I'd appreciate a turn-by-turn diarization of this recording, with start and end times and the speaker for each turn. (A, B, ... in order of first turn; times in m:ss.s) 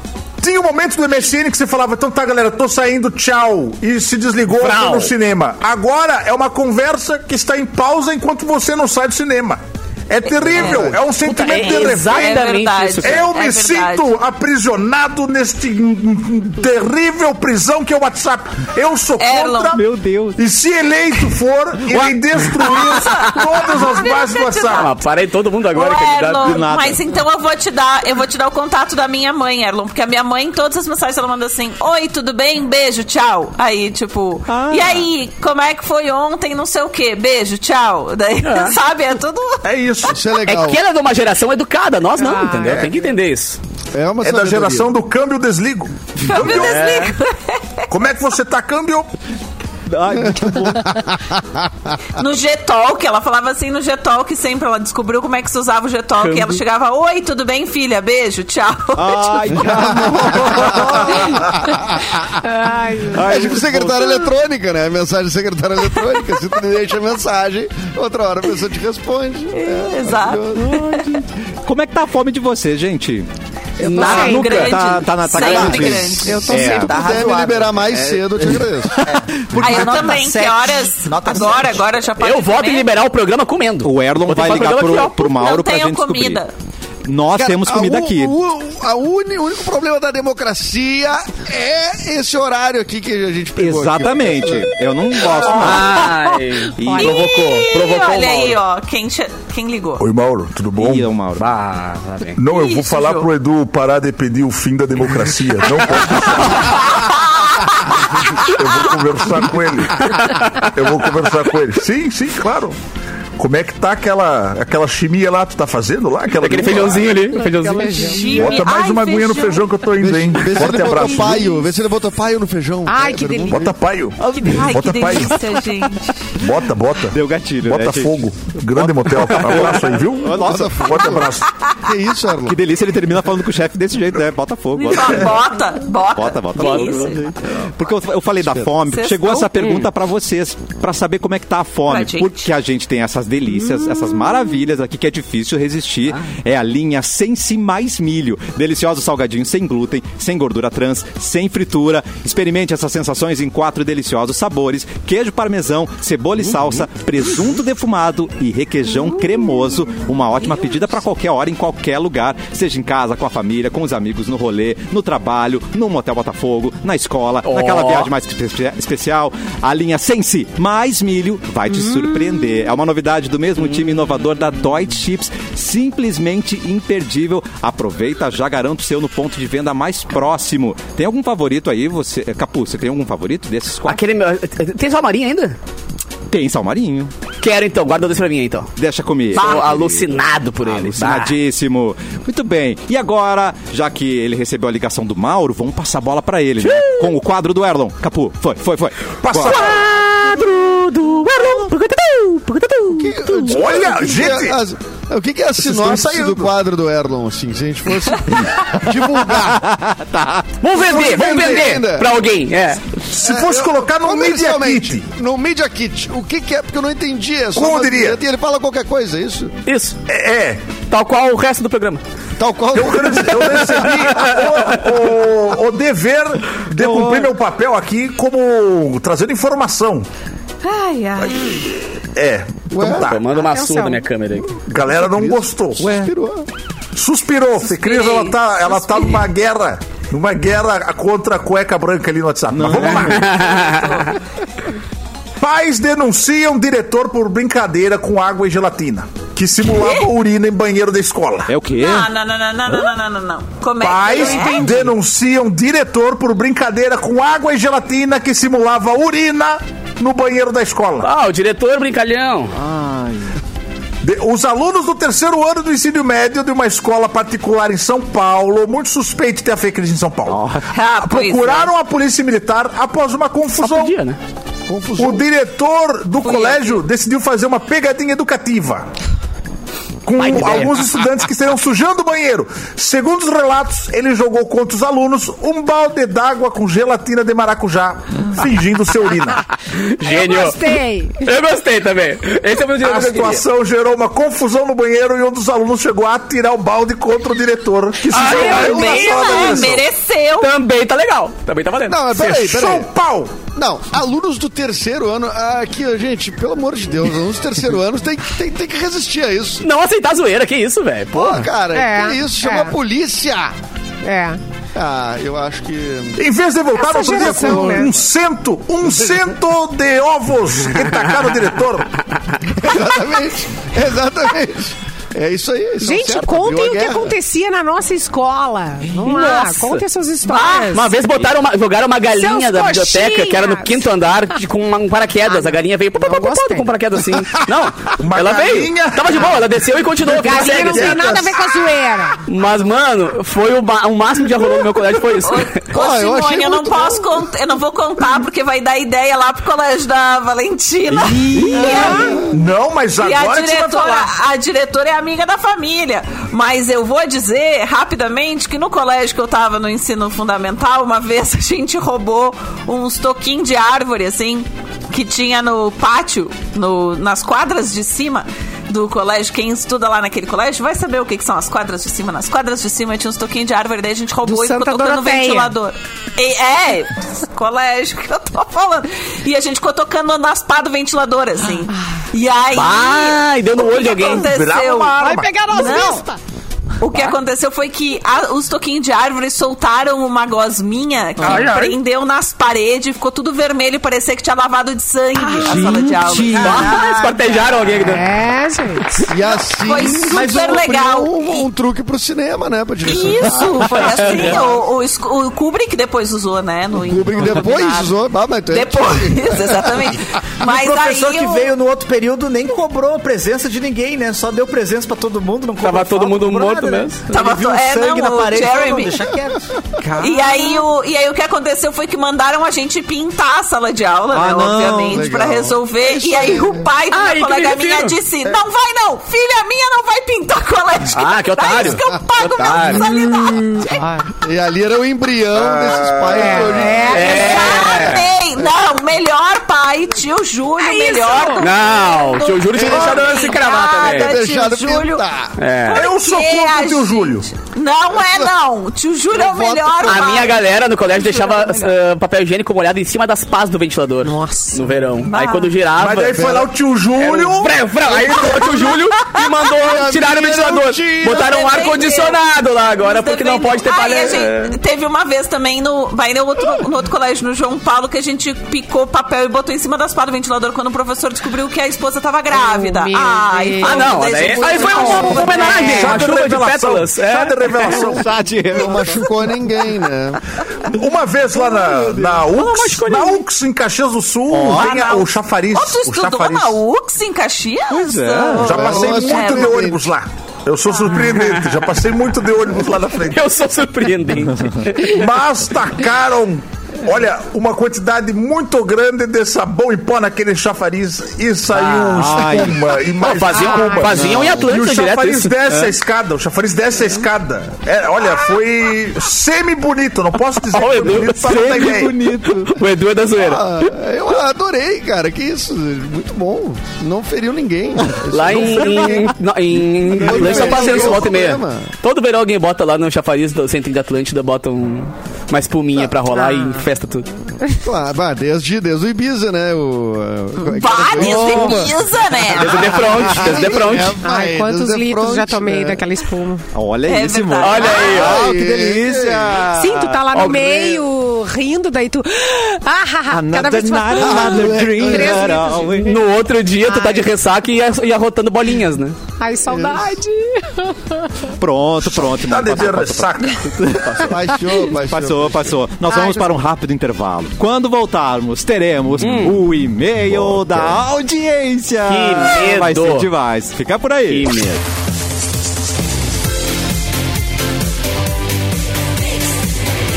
0:00.4-0:12.4 A
0:04.5-0:05.1 B
0:10.3-0:14.1 C
0:10.6-0:10.9 D
0:11.2-0:13.3 B
0:13.0-0:19.8 A
0:19.2-0:19.8 C
0:19.7-0:20.4 E
0:20.4-0:24.9 A
0:22.6-0:25.0 C
0:24.7-0:26.7 B
0:25.7-0:39.6 C
0:26.4-0:27.0 E
0:34.5-0:35.0 E
0:38.4-0:38.8 B
0:39.6-0:40.2 A
0:40.0-0:40.8 D
0:40.4-0:43.6 B
0:42.2-0:42.8 F
0:43.9-0:44.9 D
0:44.2-0:46.9 A
0:46.2-0:47.8 C
0:46.3-0:47.1 B
0:47.9-0:49.1 A
0:49.9-0:51.2 E
0:50.2-0:51.1 D
0:52.2-0:59.6 C
0:56.2-0:56.6 B
0:58.9-1:01.6 E
0:59.7-1:02.0 D
1:02.4-1:03.3 F
1:03.1-1:04.2 E
1:03.2-1:10.9 D
1:09.5-1:11.1 C
1:10.8-1:13.3 E
1:13.8-1:14.8 B
1:13.8-1:16.4 C
1:13.9-1:14.4 F
1:13.9-1:16.9 E
1:15.4-1:15.8 B
1:15.4-1:19.1 D
1:16.2-1:16.9 F
1:16.5-1:21.9 G
1:19.5-1:20.1 E
1:19.6-1:22.9 C
1:22.2-1:25.3 B
1:23.8-1:26.4 E
1:24.9-1:26.5 C
1:27.0-1:28.4 E
1:27.3-1:34.7 D
1:33.6-1:36.0 E
1:35.3-1:38.6 B
1:36.8-1:37.4 E
1:36.9-1:40.1 C
1:40.0-1:41.1 A
1:40.8-1:41.4 E
1:41.3-1:42.4 B
1:42.4-1:46.8 A
1:42.5-1:43.3 C
1:46.5-1:48.0 C
1:48.3-1:52.8 A
1:50.0-1:50.8 B
1:53.4-1:57.1 A
1:56.3-1:58.6 B
1:57.4-1:58.6 F
1:58.0-1:59.7 C
1:58.4-2:01.4 A
2:00.0-2:03.7 D
2:01.1-2:01.7 F
2:02.9-2:03.7 F
2:03.5-2:05.4 A
2:04.2-2:05.0 E
2:04.3-2:06.3 C
2:06.4-2:11.5 A
2:07.1-2:11.2 E
2:10.3-2:12.6 D
2:12.4-2:15.4 E
2:14.8-2:17.2 C
2:16.1-3:04.0 E
2:16.5-2:17.3 B
2:18.9-2:19.7 C
2:21.9-2:22.5 C
2:47.4-2:48.1 B
2:53.6-2:54.2 B
3:03.8-3:05.6 B
3:06.3-3:07.1 E
3:07.4-3:08.7 B
3:08.8-3:10.1 E
3:09.3-3:11.4 B
3:09.3-3:09.8 C
3:10.6-3:19.6 E
3:16.6-3:17.2 B
3:19.2-3:19.8 A
3:19.4-3:23.6 B
3:22.9-3:29.7 D
3:23.5-3:24.6 A
3:25.6-3:26.5 A
3:29.3-3:30.5 E
3:30.6-3:33.0 B
3:30.7-3:32.1 D
3:30.8-3:31.6 A
3:33.1-3:35.0 A
3:33.2-3:39.5 D
3:37.5-3:38.2 A
3:39.6-3:40.0 B
3:40.1-3:40.7 A
3:40.8-3:42.0 B
3:42.4-3:44.0 D
3:42.7-3:50.1 A
3:43.8-3:44.8 B
3:46.7-3:47.3 E
3:50.6-3:51.6 C
3:52.1-3:53.3 A
3:52.7-3:53.2 D
3:53.0-3:54.6 B
3:53.3-3:54.0 F
3:54.6-3:55.9 A
3:55.0-3:56.5 D
3:55.8-3:56.1 E
3:57.0-4:03.4 A
3:57.6-3:59.2 C
4:02.5-4:03.3 E
4:02.9-4:04.1 B
4:03.2-4:04.2 C
4:05.4-4:11.5 A
4:09.7-4:10.1 C
4:11.5-4:12.1 E
4:11.8-4:14.9 C
4:13.8-4:21.1 A
4:21.0-4:22.6 B
4:22.5-4:23.3 E
4:24.0-4:30.4 A
4:30.3-4:30.7 E
4:30.7-4:31.7 C
4:31.0-4:34.0 A
4:33.6-4:34.2 B
4:34.6-4:35.2 D
4:35.0-4:38.9 A
4:36.2-4:36.8 C
4:40.0-4:49.4 A
4:40.2-4:41.0 B
4:49.7-4:50.7 B
4:50.0-4:51.3 F
4:51.2-4:53.4 B
4:52.8-4:59.8 A
4:58.1-4:59.6 B
4:58.1-5:00.6 C
4:58.5-4:59.8 D
5:00.4-5:02.5 B
5:01.8-5:02.9 D
5:02.4-5:03.4 A
5:03.5-5:09.6 D
5:09.6-5:11.5 B
5:11.1-5:13.5 D
5:11.7-5:12.7 F
5:14.0-5:14.4 F
5:14.7-5:16.2 D
5:16.2-5:21.9 A
5:16.8-5:17.9 F
5:17.1-5:18.1 D
5:22.5-5:27.1 D
5:25.8-5:31.0 F
5:28.9-5:29.8 B
5:30.3-5:30.8 C
5:30.5-5:41.3 B
5:32.1-5:33.9 F
5:35.3-5:36.7 F
5:38.0-5:39.4 A
5:40.0-5:41.3 A
5:40.1-5:42.2 F
5:42.3-5:45.6 B
5:45.2-5:52.2 C
5:45.7-5:47.2 D
5:50.9-5:52.1 E
5:51.5-5:52.2 F
5:52.3-5:54.1 A
5:53.0-6:26.0 C
6:14.2-6:15.5 F
6:22.5-6:24.3 B
6:24.2-6:25.7 A
6:25.0-6:26.2 F
6:26.8-6:37.5 C
6:31.2-6:31.7 B
6:31.2-6:31.7 A
6:35.2-6:35.6 F
6:35.4-6:36.8 E
6:36.3-6:38.1 B
6:37.8-6:39.1 F
6:39.1-6:44.6 D
6:39.5-6:41.5 C
6:42.8-6:47.9 C
6:43.6-6:43.9 E
6:43.9-6:44.5 B
6:46.7-6:50.0 D
6:48.5-6:51.5 C
6:50.4-6:59.5 G
6:55.6-6:57.1 B
6:57.1-6:59.0 C
6:59.8-7:00.6 E
7:00.0-7:13.8 C
7:04.1-7:05.1 E
7:04.9-7:06.7 D
7:06.9-7:08.0 B
7:10.9-7:13.6 B
7:11.6-7:13.0 D
7:13.7-7:14.1 F
7:14.1-7:17.0 D
7:15.3-7:16.8 A
7:16.1-7:17.9 F
7:16.9-7:18.1 B
7:16.9-7:25.0 C
7:20.6-7:21.5 F
7:21.4-7:24.2 B
7:22.7-7:23.0 A
7:24.0-7:25.3 D
7:25.4-7:25.9 B
7:25.6-7:31.7 C
7:25.7-7:27.3 A
7:27.9-7:28.3 D
7:29.1-7:30.2 D
7:29.8-7:44.6 B
7:34.0-7:34.6 F
7:35.0-7:35.6 C
7:35.8-7:37.6 A
7:39.6-7:41.2 D
7:41.0-7:56.0 C
7:52.3-7:55.9 F
7:53.6-7:57.8 B
7:55.5-7:58.1 A
7:57.6-7:59.1 E
7:58.5-8:00.2 D
8:00.7-8:06.6 A
8:01.7-8:02.1 E
8:02.2-8:03.2 B
8:04.3-8:04.7 E
8:04.5-8:09.6 C
8:07.7-8:08.7 E
8:08.4-8:09.8 D
8:08.4-8:13.2 A
8:10.7-8:11.0 C
8:10.9-8:11.8 B
8:12.7-8:15.1 B
8:14.4-8:14.7 E
8:14.8-8:32.0 A
8:21.5-8:25.3 B
8:22.0-8:22.7 E
8:23.3-8:23.9 F
8:23.8-8:24.5 E
8:30.4-8:33.7 B
8:31.3-8:32.5 E
8:33.2-8:41.7 D
8:38.1-8:47.1 B
8:40.1-8:40.6 E
8:46.1-8:46.6 F
8:47.6-8:55.8 D
8:50.5-8:53.2 C
8:51.1-8:51.6 E
8:52.3-8:54.0 B
8:54.0-8:56.4 F
8:56.5-9:00.3 E
8:56.8-8:58.1 C
8:57.4-8:58.2 B
8:57.8-8:59.6 D
8:59.5-9:06.0 F
9:00.4-9:00.8 B
9:03.1-9:05.9 E
9:04.0-9:05.5 D
9:05.8-9:09.0 B
9:06.6-9:07.1 F
9:09.2-9:11.1 F
9:11.4-9:14.2 E
9:11.8-9:13.5 A
9:13.7-9:14.1 B
9:14.0-9:15.6 D
9:14.7-9:24.4 E
9:15.9-9:16.3 F
9:19.0-9:19.4 B
9:20.4-9:20.7 B
9:21.8-9:23.1 B
9:24.1-9:24.6 B